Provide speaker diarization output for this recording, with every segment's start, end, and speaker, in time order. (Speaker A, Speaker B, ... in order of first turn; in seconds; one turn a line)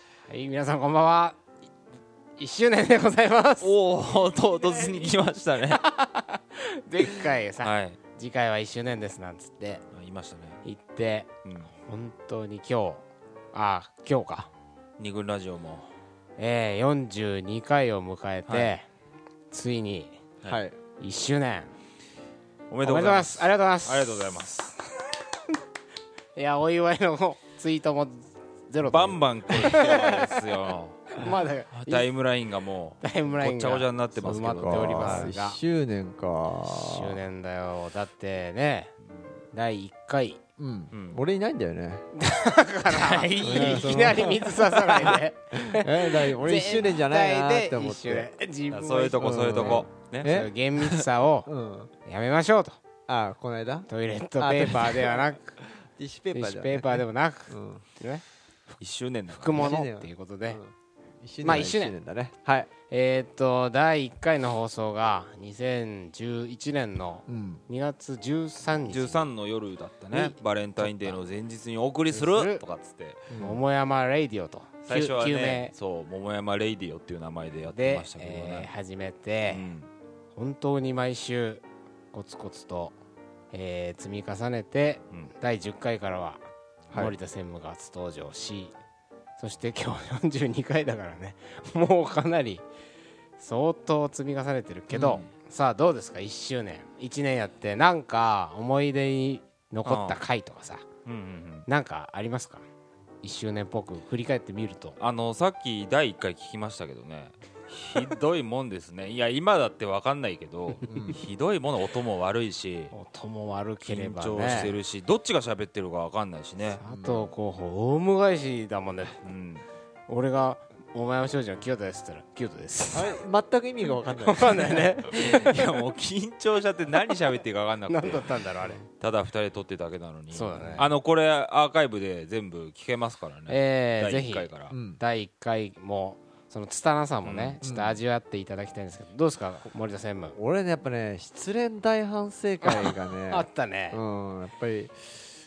Speaker A: 0.3-1.4
Speaker A: 2.4-3.7
Speaker B: 3.6-5.8
Speaker A: 4.6-5.1
Speaker A: 5.7-9.8
Speaker B: 7.2-8.0
Speaker B: 9.9-10.6
Speaker A: 10.6-11.3
Speaker B: 11.4-11.7
Speaker A: 11.8-14.5
Speaker B: 15.0-15.9
Speaker A: 16.4-18.9
Speaker B: 18.5-18.7
Speaker A: 19.5-20.2
Speaker C: 20.5-20.8
Speaker A: 21.0-21.7
Speaker B: 22.7-24.8
Speaker A: 22.8-24.4
Speaker A: 26.4-30.3
Speaker B: 28.8-35.3
Speaker A: 31.2-32.1
Speaker A: 33.0-35.6
Speaker C: 34.2-37.2
Speaker A: 36.7-38.9
Speaker A: 39.5-40.4
Speaker C: 40.6-42.0
Speaker B: 40.9-41.2
Speaker A: 42.1-51.5
Speaker B: 42.9-44.3
Speaker C: 43.4-48.3
Speaker B: 48.7-51.0
Speaker C: 49.2-50.5
Speaker C: 51.4-51.9
Speaker A: 52.0-52.8
Speaker C: 53.1-53.9
Speaker A: 53.9-55.6
Speaker C: 54.4-57.8
Speaker A: 56.3-58.2
Speaker B: 58.8-59.7
Speaker A: 59.3-60.6
Speaker C: 59.5-62.7
Speaker A: 61.4-61.9
Speaker A: 62.9-69.3
Speaker C: 67.3-67.6
Speaker B: 68.8-73.3
Speaker A: 70.1-71.2
Speaker A: 72.1-72.7
Speaker C: 73.3-73.6
Speaker A: 73.3-75.7
Speaker B: 74.8-78.7
Speaker A: 77.7-79.7
Speaker B: 79.5-79.9
Speaker A: 80.3-83.0
Speaker A: 83.5-86.4
Speaker A: 86.9-88.7
Speaker A: 89.4-92.6
Speaker A: 93.4-100.8
Speaker B: 94.9-95.3
Speaker B: 99.8-100.2
Speaker B: 101.0-101.7
Speaker A: 101.7-102.6
Speaker A: 103.2-105.0
Speaker B: 105.0-112.9
Speaker C: 110.8-111.2
Speaker A: 112.9-114.7
Speaker B: 113.8-116.8
Speaker A: 116.7-119.2
Speaker C: 116.8-117.3
Speaker B: 119.2-119.7
Speaker A: 120.1-123.2
Speaker C: 122.9-124.8
Speaker A: 124.1-125.7
Speaker B: 125.1-128.4
Speaker A: 127.8-128.9
Speaker B: 129.0-134.7
Speaker A: 130.3-130.9
Speaker C: 130.6-130.9
Speaker A: 133.5-140.3
Speaker C: 134.7-135.0
Speaker B: 137.2-137.6
Speaker C: 137.6-138.0
Speaker C: 140.3-145.3
Speaker A: 142.6-144.0